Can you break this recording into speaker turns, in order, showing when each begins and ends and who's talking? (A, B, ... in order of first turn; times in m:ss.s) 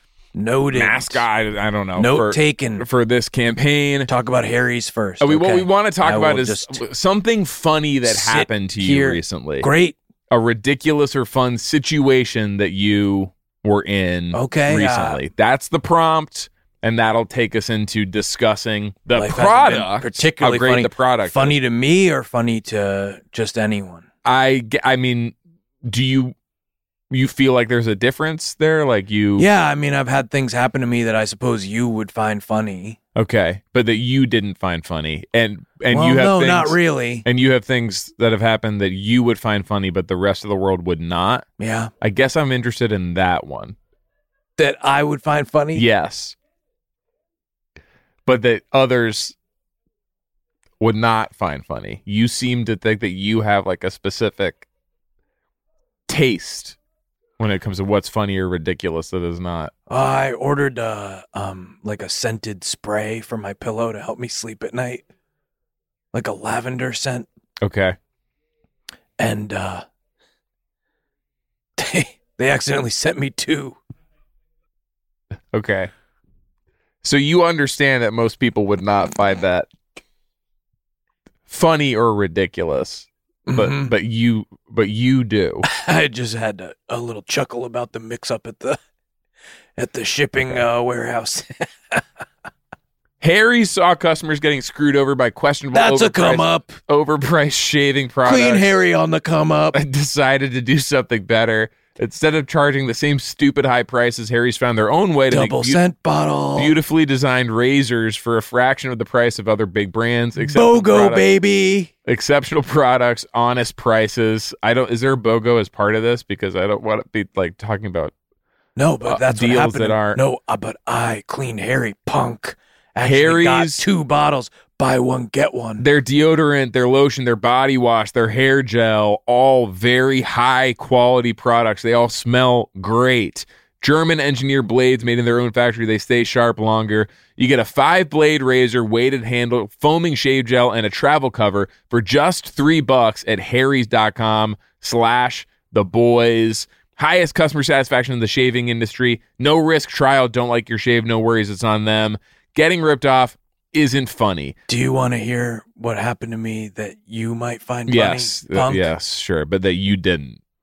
0:00.4-0:01.2 A
0:00.7-0:04.1 B
0:02.0-0:02.8 A
0:04.1-0:06.8 A
0:05.2-0:09.7 B
0:08.1-0:10.0 A
0:10.3-0:21.6 B
0:14.3-0:15.2 A
0:19.1-0:24.0 A
0:24.2-0:26.3 B
0:27.1-0:29.5 B
0:29.4-0:33.0 A
0:33.2-0:41.5 B
0:35.9-0:37.3 A
0:41.6-0:41.9 A
0:42.0-0:43.8 B
0:44.6-0:45.9 A
0:45.8-0:46.4 B
0:48.3-0:49.4 B
0:50.8-0:54.7 B
0:56.1-0:56.8 B
0:57.4-0:59.7 B
0:59.9-1:05.0 A
1:06.1-1:07.3 A
1:07.6-1:08.0 B
1:09.2-1:09.8 A
1:11.8-1:13.8 A
1:15.5-1:15.9 B
1:17.0-1:19.7 B
1:21.5-1:25.7 B
1:23.5-1:23.9 A
1:25.6-1:28.8 A
1:29.8-1:32.0 A
1:33.2-1:38.7 B
1:35.7-1:36.8 A
1:38.2-1:39.8 A
1:39.7-1:45.8 B
1:45.3-1:46.8 A
1:46.6-1:51.3 B
1:50.4-1:51.9 A
1:52.1-1:58.1 B
1:58.8-2:05.8 A
1:59.0-2:00.2 B
2:03.0-2:03.8 B
2:05.8-2:34.6 B
2:34.7-2:38.9 A
2:37.9-2:40.4 B